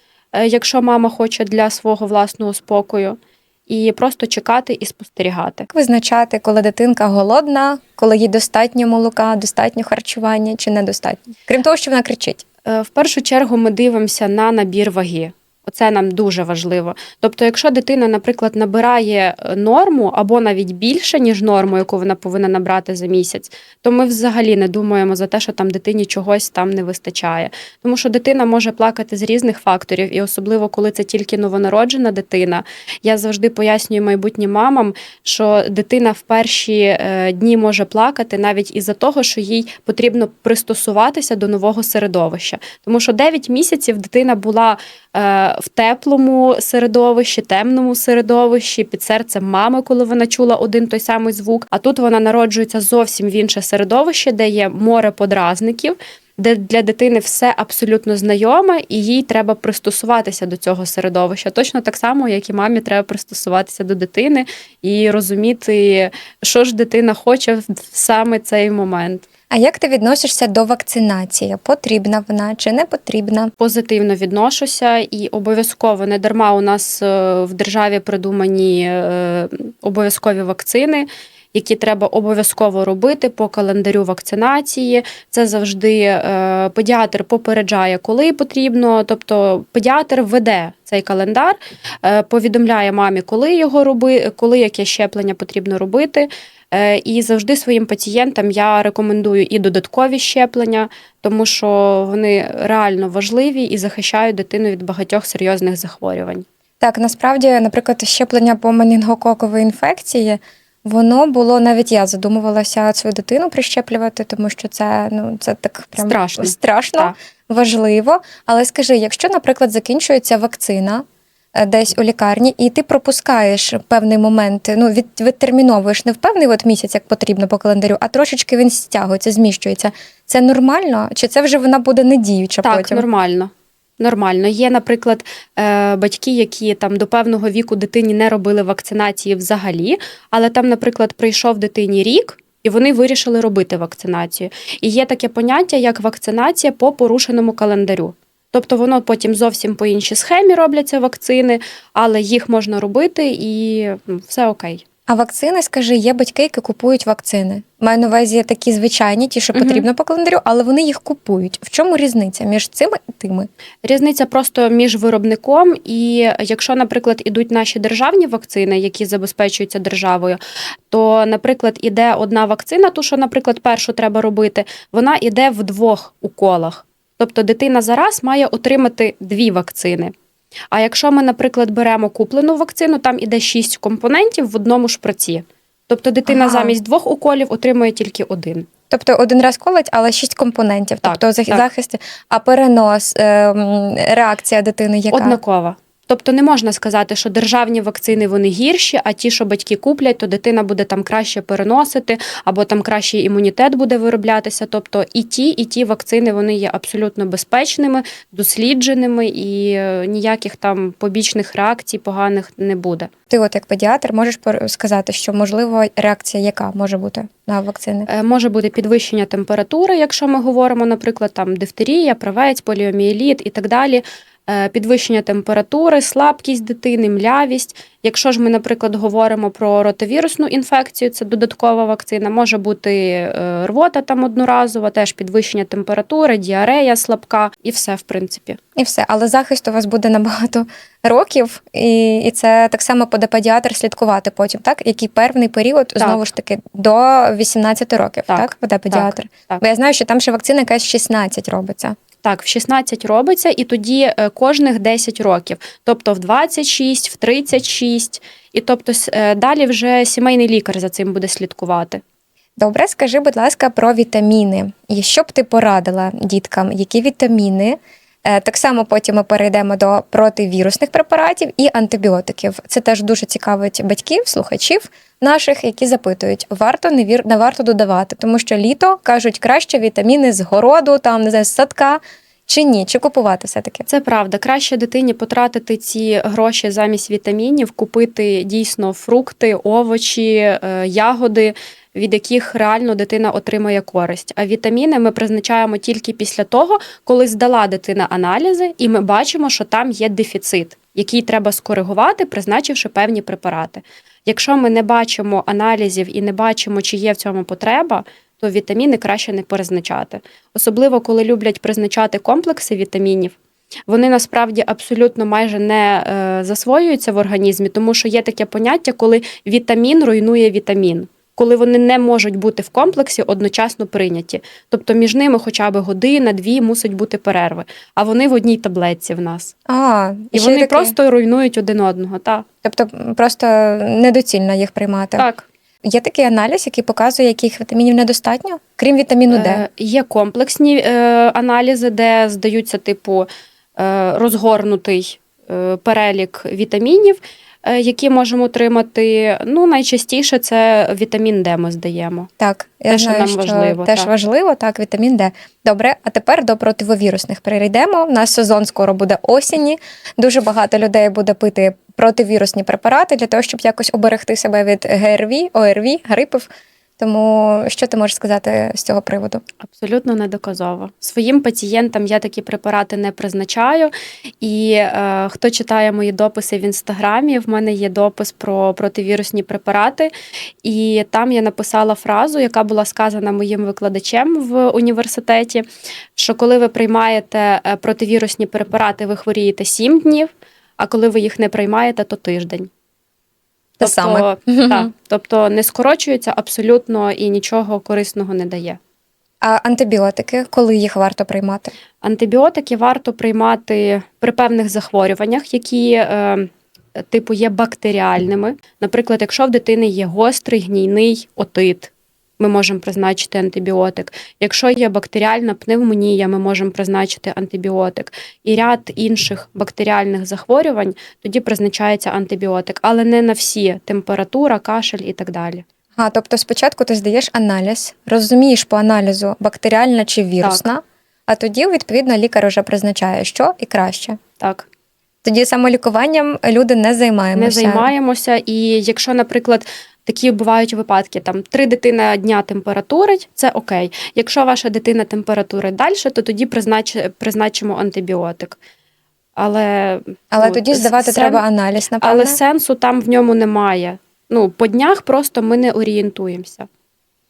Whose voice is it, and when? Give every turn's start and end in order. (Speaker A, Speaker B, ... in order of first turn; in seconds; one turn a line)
Speaker A: 0.3-5.7
Speaker B: 5.7-12.4
Speaker A: 12.7-69.2
Speaker B: 69.5-73.5
Speaker A: 73.6-106.5
Speaker B: 106.8-133.0
Speaker A: 116.0-117.1
Speaker A: 132.6-154.8
Speaker B: 155.1-163.5
Speaker A: 159.5-159.8
Speaker A: 163.8-170.4
Speaker A: 170.9-180.1
Speaker A: 180.7-188.7
Speaker B: 186.3-186.8
Speaker B: 188.9-195.4
Speaker A: 191.0-191.6
Speaker A: 195.1-213.1
Speaker B: 213.3-218.1
Speaker A: 218.1-238.6
Speaker B: 238.8-252.0
Speaker A: 248.3-249.6
Speaker A: 252.2-262.0
Speaker B: 262.6-283.8
Speaker A: 283.9-313.3
Speaker A: 313.9-329.5
Speaker B: 329.7-330.9
Speaker A: 330.3-332.4
Speaker B: 332.6-335.2
Speaker A: 335.2-335.4
Speaker B: 335.8-339.6
Speaker A: 339.3-352.3
Speaker B: 352.4-369.4
Speaker A: 352.9-354.1
Speaker A: 369.6-380.1
Speaker A: 380.6-385.6
Speaker A: 386.2-392.7
Speaker B: 393.8-394.9
Speaker A: 393.8-398.8
Speaker B: 399.4-401.7
Speaker A: 402.0-425.6
Speaker B: 425.9-434.2
Speaker A: 434.4-434.7
Speaker B: 435.2-437.9
Speaker A: 437.3-448.6
Speaker A: 449.4-451.4
Speaker B: 450.3-452.4
Speaker A: 452.0-456.7